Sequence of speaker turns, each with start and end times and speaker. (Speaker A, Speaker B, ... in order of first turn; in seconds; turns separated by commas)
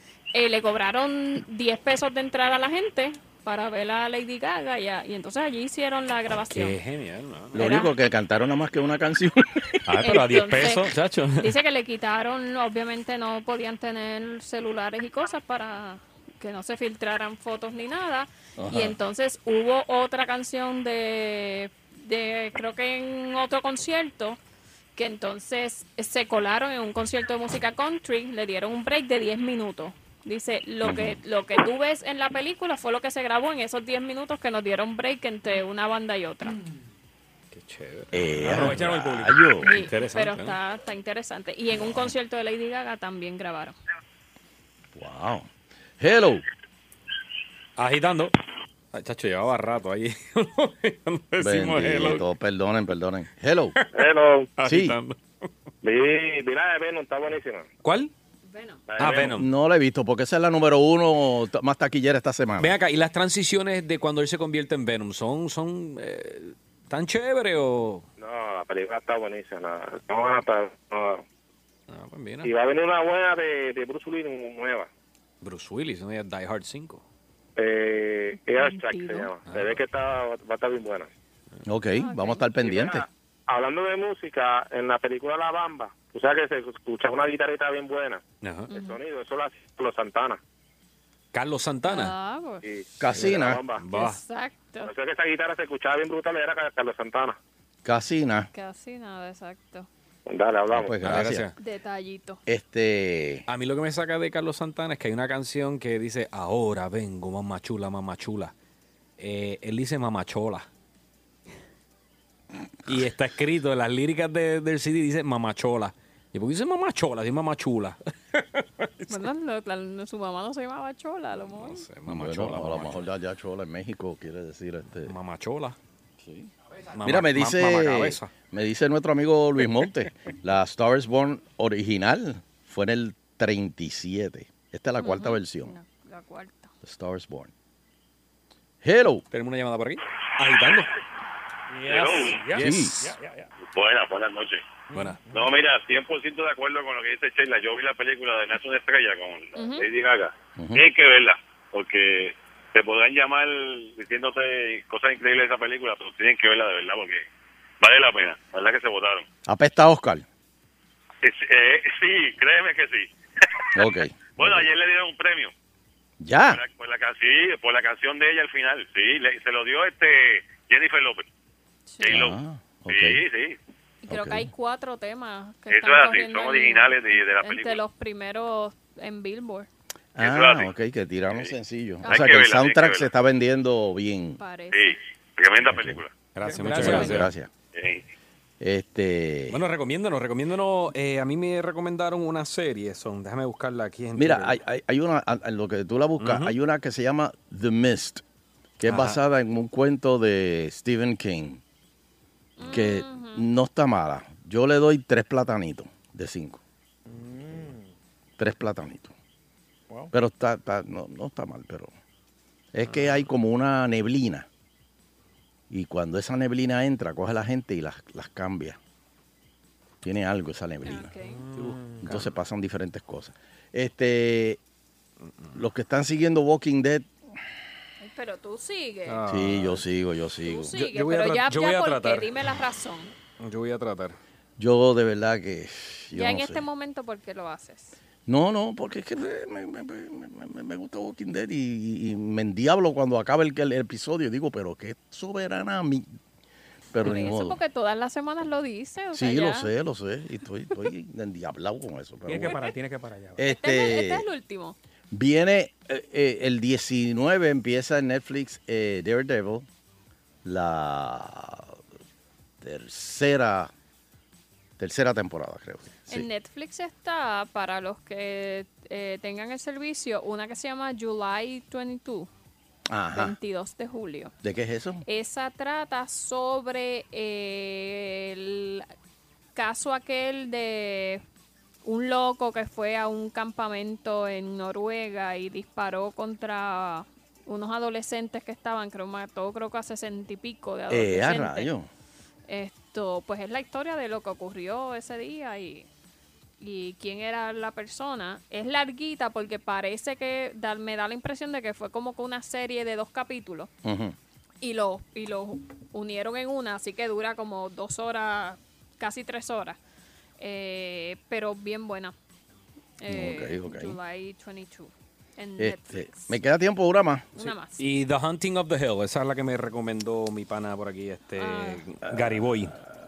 Speaker A: 0.3-6.8, Speaker B: 6.5-7.5, Speaker C: 7.5-9.6, Speaker A: 7.5-7.9, Speaker B: 9.9-11.6, Speaker A: 10.0-24.4, Speaker C: 18.6-18.9, Speaker A: 24.9-36.6, Speaker C: 30.8-31.2, Speaker B: 37.5-38.9, Speaker C: 38.1-39.8, Speaker D: 38.4-39.4, Speaker A: 39.6-43.8, Speaker B: 39.9-40.6, Speaker C: 44.9-45.5, Speaker C: 46.0-46.4, Speaker B: 47.8-48.3, Speaker B: 48.9-52.2, Speaker C: 51.4-53.7, Speaker B: 53.8-54.0, Speaker E: 54.0-54.5, Speaker B: 54.6-55.2, Speaker C: 54.6-55.0, Speaker E: 55.8-57.6, Speaker B: 57.8-58.1, Speaker A: 58.5-58.9, Speaker B: 59.0-59.5, Speaker F: 59.0-59.3, Speaker C: 59.0-62.8, Speaker B: 62.6-68.1, Speaker E: 68.2-71.2, Speaker B: 71.9-72.5, Speaker E: 72.5-74.8, Speaker B: 75.4-77.0, Speaker E: 77.6-81.1, Speaker A: 78.3-79.3, Speaker B: 79.4-79.8, Speaker C: 81.7-83.0, Speaker A: 81.9-82.5, Speaker E: 83.5-88.2, Speaker B: 88.4-88.7, Speaker A: 88.7-89.0, Speaker E: 88.8-90.4, Speaker B: 91.3-92.1, Speaker A: 91.8-92.7, Speaker E: 92.7-93.7, Speaker C: 93.0-93.6, Speaker B: 93.2-94.2, Speaker A: 93.9-94.9, Speaker E: 94.8-97.3, Speaker C: 97.8-98.5, Speaker A: 98.5-99.9, Speaker E: 100.3-100.9, Speaker C: 100.7-101.5, Speaker B: 101.0-101.5, Speaker A: 101.6-102.4, Speaker C: 102.5-103.5, Speaker B: 103.5-108.5, Speaker B: 109.2-110.7, Speaker B: 112.9-119.2, Speaker A: 119.1-121.9, Speaker B: 121.5-123.1, Speaker C: 122.1-125.1, Speaker B: 125.1-125.8, Speaker C: 126.2-126.5, Speaker B: 127.0-128.3, Speaker C: 127.0-135.7, Speaker A: 135.0-136.7, Speaker C: 136.8-137.5, Speaker C: 138.8-139.2, Speaker B: 139.3-140.9, Speaker D: 141.7-143.5, Speaker F: 141.9-142.4, Speaker C: 142.5-143.1, Speaker F: 143.7-144.7, Speaker D: 144.9-145.5, Speaker B: 144.9-145.2, Speaker F: 145.3-157.2, Speaker A: 149.6-149.9, Speaker C: 150.6-150.8, Speaker F: 157.8-159.3, Speaker C: 159.4-160.3, Speaker F: 161.2-163.1, Speaker C: 163.7-164.7, Speaker F: 164.4-165.5, Speaker C: 166.2-166.6, Speaker F: 166.5-171.2, Speaker A: 171.9-172.2, Speaker F: 172.0-172.3, Speaker C: 172.1-173.2, Speaker F: 172.9-173.6, Speaker A: 174.0-179.7, Speaker C: 174.1-174.5, Speaker F: 175.7-177.8, Speaker C: 180.2-184.4, Speaker F: 180.2-180.7, Speaker A: 182.0-182.4, Speaker F: 182.1-183.1, Speaker A: 184.4-185.0, Speaker F: 184.7-186.2, Speaker C: 185.7-186.0, Speaker B: 186.3-187.3, Speaker D: 186.4-187.1, Speaker A: 186.6-187.1, Speaker C: 186.8-187.5, Speaker F: 187.7-188.0, Speaker C: 188.6-189.6, Speaker B: 189.5-194.6, Speaker C: 194.2-198.2, Speaker B: 196.2-196.5, Speaker C: 198.8-201.6, Speaker B: 198.9-199.2, Speaker A: 202.6-203.5, Speaker C: 202.6-206.6, Speaker D: 207.1-207.9, Speaker C: 208.4-209.1, Speaker C: 210.1-211.9, Speaker C: 212.7-214.5, Speaker B: 212.9-213.1, Speaker C: 215.7-218.8, Speaker C: 220.0-221.1, Speaker A: 220.8-221.4, Speaker B: 221.4-222.3, Speaker D: 221.6-222.0, Speaker C: 222.0-224.6, Speaker C: 225.5-227.1, Speaker A: 228.0-229.2, Speaker B: 229.1-229.8, Speaker C: 229.3-230.7, Speaker A: 230.4-233.1, Speaker B: 230.7-232.4, Speaker B: 233.4-234.2, Speaker C: 234.6-236.6, Speaker A: 236.1-238.0, Speaker C: 238.3-246.1, Speaker C: 246.9-247.6, Speaker A: 247.0-249.7, Speaker C: 249.1-252.6, Speaker D: 252.2-253.5, Speaker C: 253.4-254.2, Speaker A: 253.6-254.8, Speaker C: 255.1-259.7, Speaker C: 260.4-261.8, Speaker C: 262.6-263.7, Speaker C: 264.8-266.3, Speaker A: 266.1-272.3, Speaker C: 272.9-273.4, Speaker A: 273.1-274.3, Speaker C: 274.4-275.0, Speaker A: 275.1-278.9, Speaker A: 279.6-281.2, Speaker A: 281.8-291.7, Speaker C: 290.9-291.9, Speaker A: 292.5-295.9, Speaker A: 296.6-303.7, Speaker C: 303.8-304.2, Speaker A: 304.6-309.8, Speaker A: 310.4-312.1, Speaker A: 313.0-316.4, Speaker C: 313.1-314.0, Speaker C: 315.6-317.3, Speaker A: 317.4-317.9, Speaker B: 317.4-322.7, Speaker A: 321.4-321.8